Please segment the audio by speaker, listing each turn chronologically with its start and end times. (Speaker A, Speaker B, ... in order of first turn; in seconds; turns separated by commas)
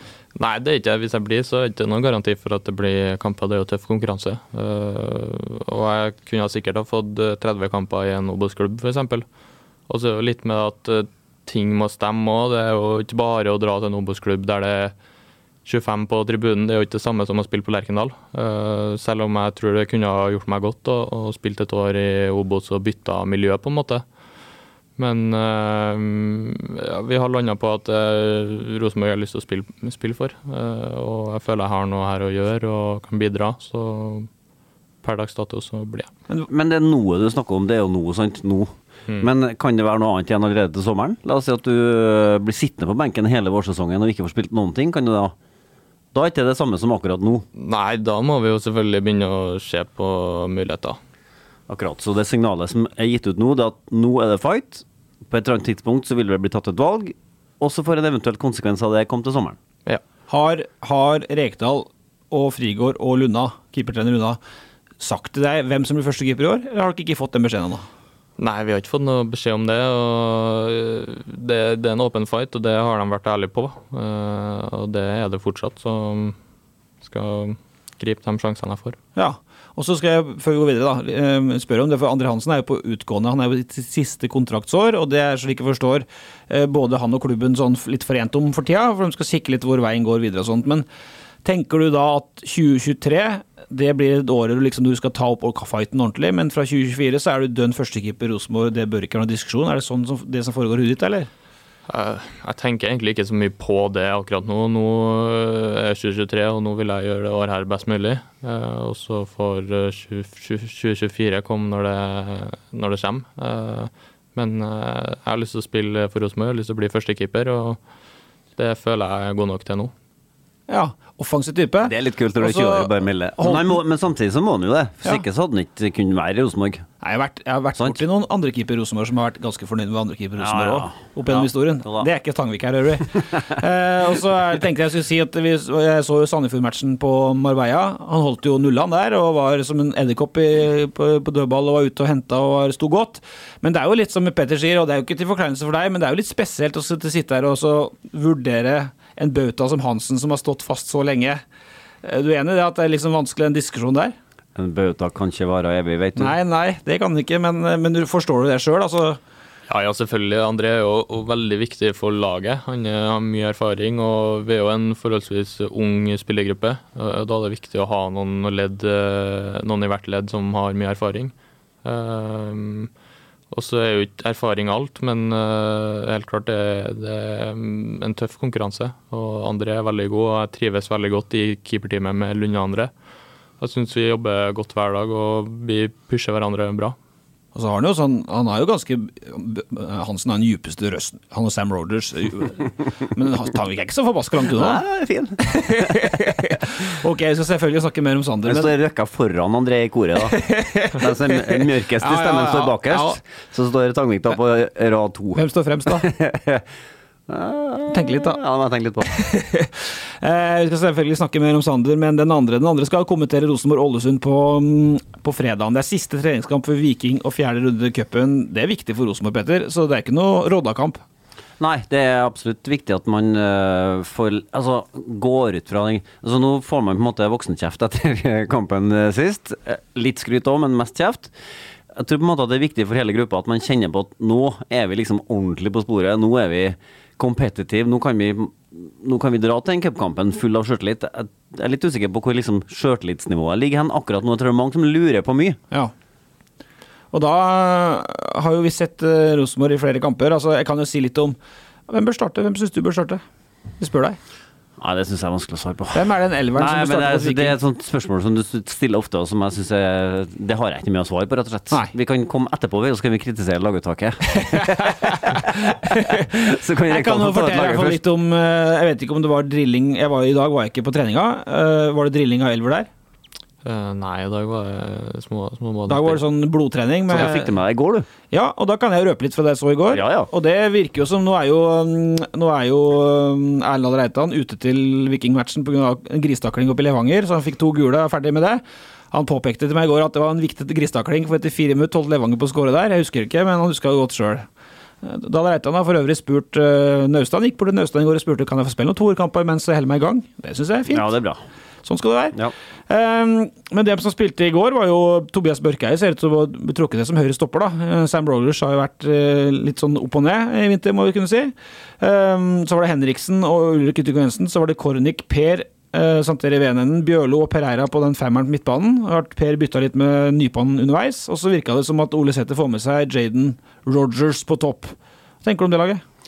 Speaker A: 0.3-9.3, Speaker A: 9.9-14.9, Speaker A: 15.7-24.1, Speaker A: 25.0-34.3, Speaker A: 35.0-36.1, Speaker B: 36.5-45.3, Speaker B: 46.1-47.5, Speaker A: 47.5-51.0, Speaker B: 51.7-59.6, Speaker C: 60.3-64.4, Speaker C: 65.0-67.9, Speaker A: 68.4-76.4, Speaker A: 77.0-79.0, Speaker C: 79.2-90.8, Speaker C: 91.5-101.3, Speaker A: 101.9-117.8, Speaker A: 118.6-119.9, Speaker C: 120.7-123.8, Speaker B: 121.8-126.9, Speaker C: 127.0-151.4, Speaker B: 130.4-132.1, Speaker C: 152.0-154.2, Speaker B: 154.6-156.4, Speaker C: 156.2-159.2, Speaker A: 159.7-172.9, Speaker A: 173.5-182.9, Speaker A: 183.6-187.0, Speaker C: 187.6-194.8, Speaker B: 194.6-196.1, Speaker C: 195.4-198.7, Speaker B: 198.4-200.4, Speaker C: 200.3-203.2, Speaker B: 201.0-206.7, Speaker C: 205.3-206.1, Speaker B: 207.3-209.1, Speaker C: 207.9-208.4, Speaker C: 209.1-221.0, Speaker B: 221.6-231.3, Speaker B: 231.9-245.6, Speaker C: 247.1-251.4, Speaker C: 251.9-253.2, Speaker C: 253.8-254.2, Speaker B: 254.8-268.0, Speaker C: 255.9-257.6, Speaker C: 265.9-266.3, Speaker C: 266.9-272.9, Speaker A: 273.6-276.2, Speaker C: 275.9-277.5, Speaker B: 277.1-278.1, Speaker C: 278.3-294.5, Speaker B: 279.9-280.3, Speaker C: 295.0-301.1, Speaker B: 300.9-301.4, Speaker C: 301.9-302.4, Speaker C: 302.9-326.0